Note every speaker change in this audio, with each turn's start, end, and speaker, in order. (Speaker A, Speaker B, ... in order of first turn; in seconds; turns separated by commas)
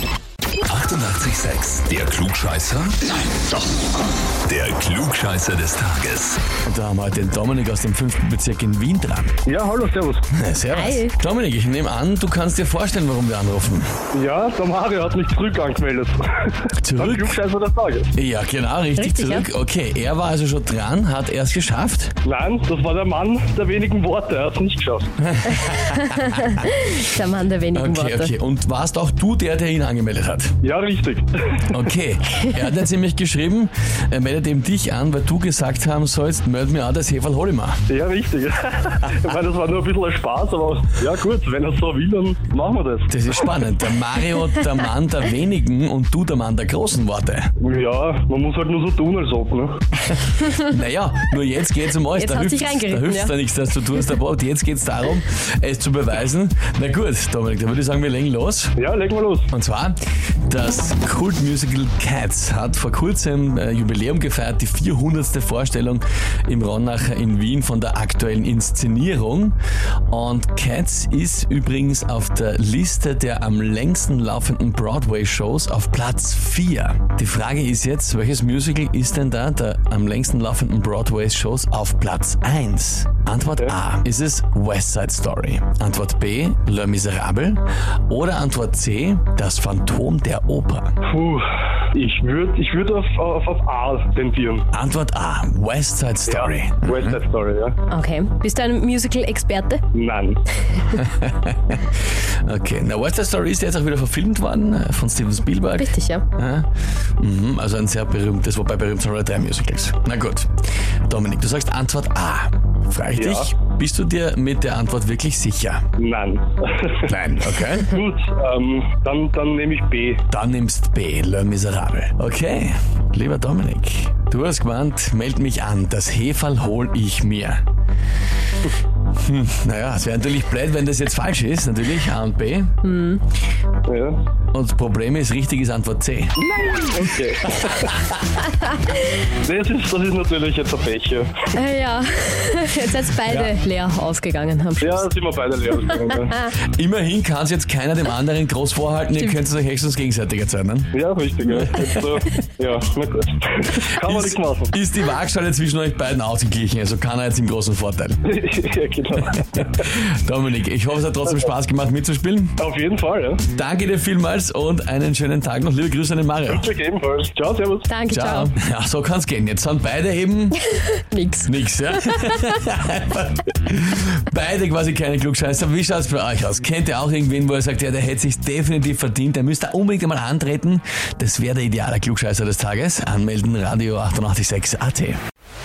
Speaker A: 0.7-3.5, Speaker A: 4.4-6.4, Speaker B: 6.6-9.3, Speaker C: 9.4-10.3, Speaker B: 10.3-13.9, Speaker D: 10.7-11.2, Speaker C: 14.1-18.1, Speaker B: 16.8-17.3, Speaker B: 18.1-22.1, Speaker D: 19.0-19.5, Speaker C: 22.2-25.2, Speaker B: 25.2-26.5, Speaker D: 25.7-28.3, Speaker B: 27.7-30.5, Speaker C: 30.6-31.7, Speaker B: 31.7-37.8, Speaker C: 37.9-43.6, Speaker B: 43.1-47.5, Speaker C: 47.6-49.8, Speaker B: 50.1-58.8, Speaker D: 52.1-53.3, Speaker C: 58.8-59.5, Speaker B: 59.5-69.6, Speaker B: 70.1-90.9, Speaker C: 91.0-94.7, Speaker B: 94.7-97.2, Speaker C: 96.3-97.8, Speaker D: 97.9-99.8, Speaker C: 99.9-100.4, Speaker B: 100.9-101.8, Speaker B: 102.4-110.5, Speaker D: 105.8-106.2, Speaker B: 111.1-115.8, Speaker C: 113.2-113.5, Speaker C: 116.0-117.2, Speaker B: 117.1-117.9, Speaker C: 117.8-120.2, Speaker B: 120.3-127.6, Speaker B: 129.2-132.8, Speaker D: 132.8-133.2, Speaker C: 133.9-134.2, Speaker B: 134.5-136.3, Speaker C: 136.4-138.1, Speaker C: 139.3-141.6, Speaker D: 141.5-145.1, Speaker C: 144.8-146.5, Speaker B: 146.5-152.2, Speaker C: 150.9-154.8, Speaker B: 153.9-158.2, Speaker C: 158.2-160.0, Speaker B: 159.9-162.6, Speaker C: 162.6-163.4, Speaker B: 163.5-166.7, Speaker C: 166.5-167.9, Speaker D: 167.9-168.6, Speaker B: 168.1-170.6, Speaker D: 170.7-172.6, Speaker B: 171.4-185.2